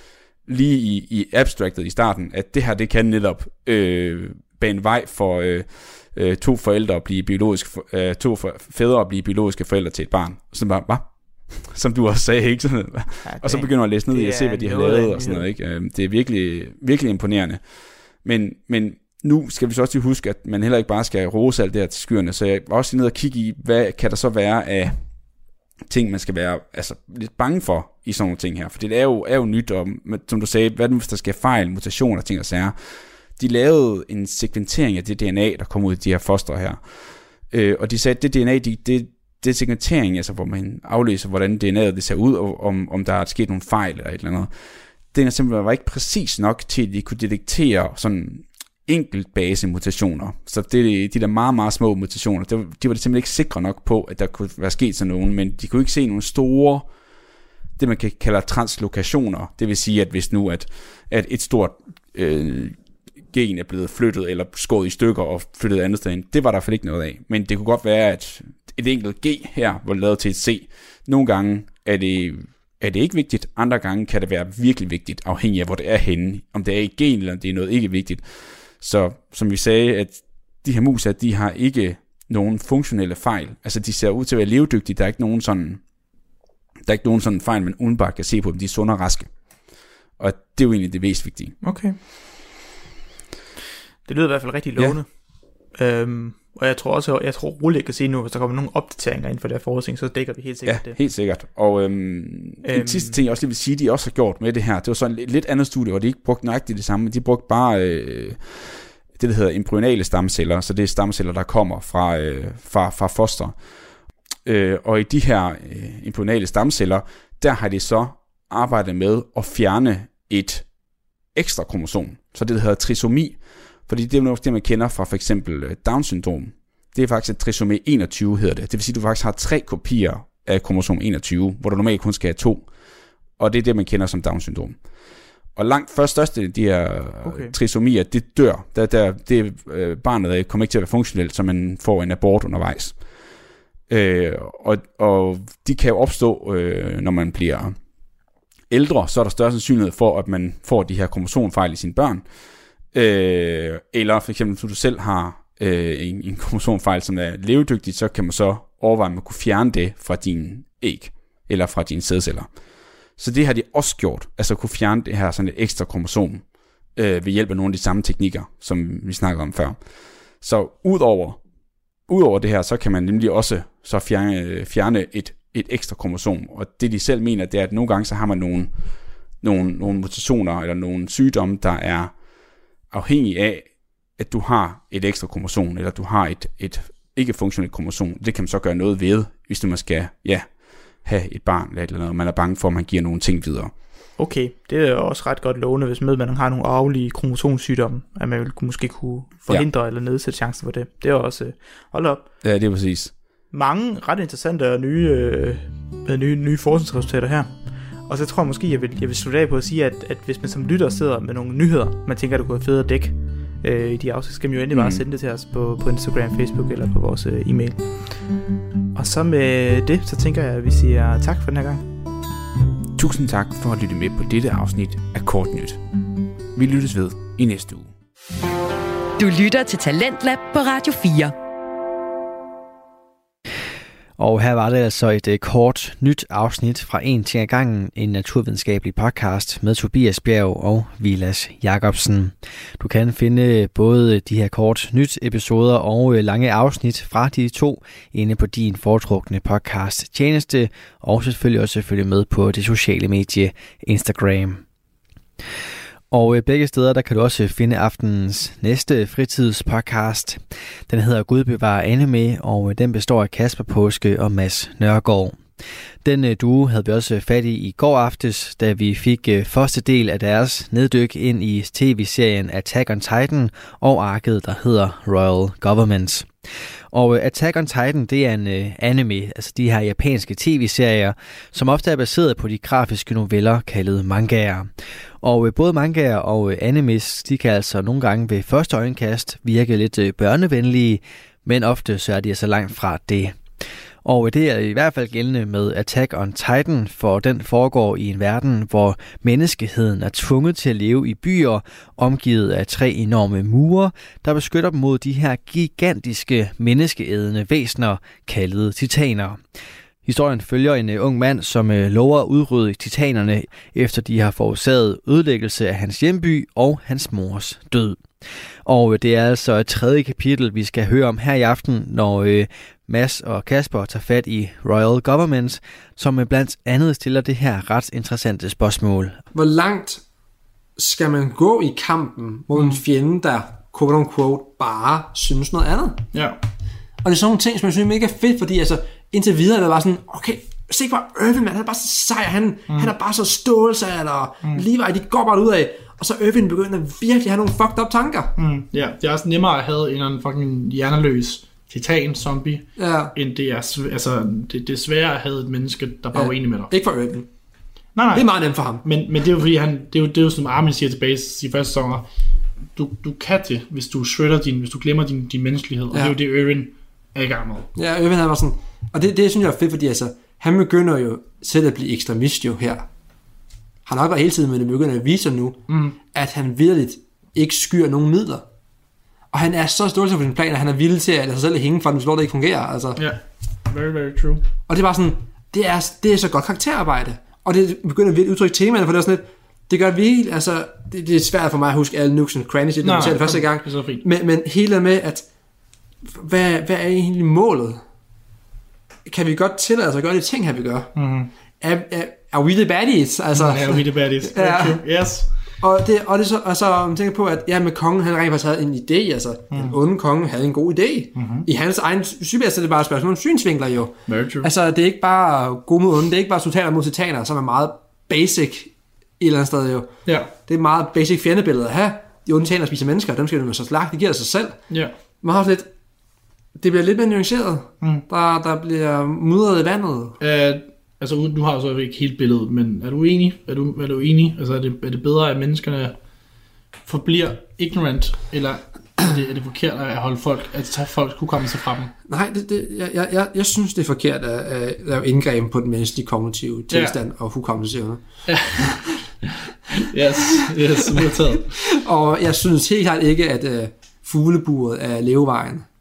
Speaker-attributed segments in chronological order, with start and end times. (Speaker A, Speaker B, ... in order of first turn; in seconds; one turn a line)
Speaker A: 0.5-25.0
Speaker B: 13.2-15.5
Speaker A: 25.9-56.9
Speaker A: 57.8-62.8
Speaker A: 63.3-85.8
Speaker A: 86.8-91.6
Speaker B: 91.6-92.0
Speaker B: 94.1-95.1
Speaker B: 95.7-101.0
Speaker A: 100.7-113.5
Speaker B: 102.6-103.2
Speaker A: 114.5-120.7
Speaker A: 121.3-132.7
Speaker A: 133.4-134.9
Speaker A: 135.5-143.0
Speaker B: 137.2-137.5
Speaker A: 143.9-147.8
Speaker A: 148.7-152.2
Speaker A: 152.9-162.5
Speaker A: 163.2-169.8
Speaker A: 170.4-171.4
Speaker A: 172.1-178.8
Speaker A: 179.4-182.1
Speaker A: 182.9-193.8
Speaker B: 194.2-202.3
Speaker A: 202.4-203.1
Speaker B: 203.5-218.3
Speaker A: 214.7-215.0
Speaker B: 218.9-221.9
Speaker A: 223.0-225.8
Speaker A: 226.6-227.9
Speaker C: 229.2-231.3
Speaker D: 234.2-254.6
Speaker D: 256.1-265.4
Speaker D: 266.0-276.3
Speaker D: 276.9-293.5
Speaker D: 294.0-309.4
Speaker D: 310.0-318.1
Speaker D: 318.6-329.2
Speaker E: 329.3-330.0
Speaker E: 330.8-336.1
Speaker F: 336.1-336.4
Speaker E: 337.0-348.3
Speaker F: 348.4-356.7
Speaker E: 352.8-353.1
Speaker E: 356.1-357.3
Speaker F: 357.9-362.1
Speaker E: 358.1-358.9
Speaker F: 362.8-367.7
Speaker E: 367.8-372.9
Speaker E: 373.9-378.5
Speaker F: 375.7-376.0
Speaker E: 379.3-383.0
Speaker F: 383.0-384.4
Speaker E: 384.7-395.3
Speaker F: 392.8-394.0
Speaker E: 396.0-397.8
Speaker E: 399.1-400.9
Speaker F: 401.0-401.3
Speaker E: 401.6-404.8
Speaker F: 403.3-405.3
Speaker E: 405.6-424.6
Speaker F: 409.5-409.8
Speaker F: 411.1-411.5
Speaker F: 414.1-414.5
Speaker F: 420.1-420.3
Speaker E: 425.2-425.7
Speaker E: 426.6-430.2
Speaker F: 430.2-436.0
Speaker F: 436.9-441.9
Speaker E: 442.1-448.0
Speaker F: 446.7-447.0
Speaker F: 448.3-449.0
Speaker F: 449.7-451.5
Speaker E: 450.3-455.6